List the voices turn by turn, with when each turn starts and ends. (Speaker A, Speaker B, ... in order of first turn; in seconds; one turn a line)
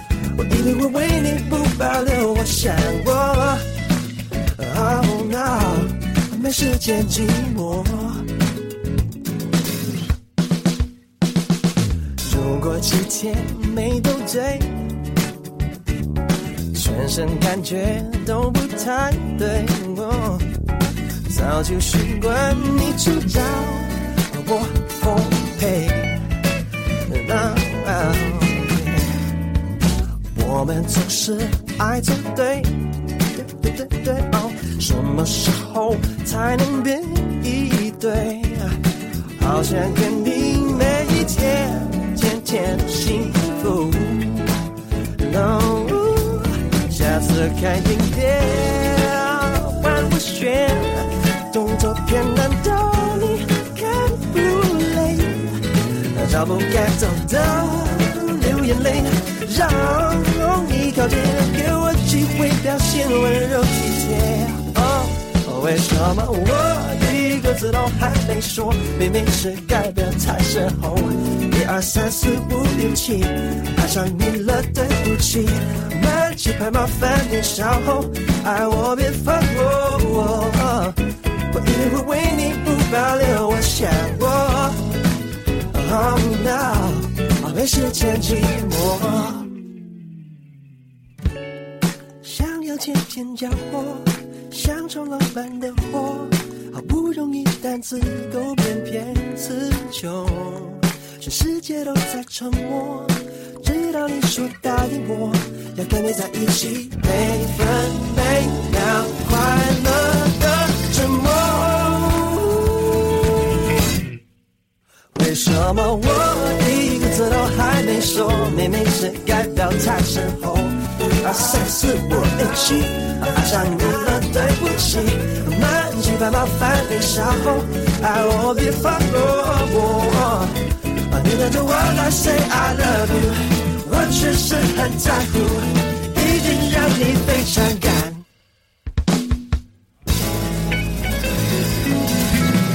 Speaker A: 0.3-3.6
Speaker A: 4.5-8.3
Speaker A: 12.2-14.9
Speaker A: 16.7-20.5
Speaker A: 21.3-26.3
Speaker A: 27.1-29.3
Speaker A: 30.3-38.8
Speaker A: 39.4-44.6
Speaker A: 45.2-85.0
Speaker A: 85.7-89.5
Speaker A: 92.2-113.6
Speaker A: 115.1-138.3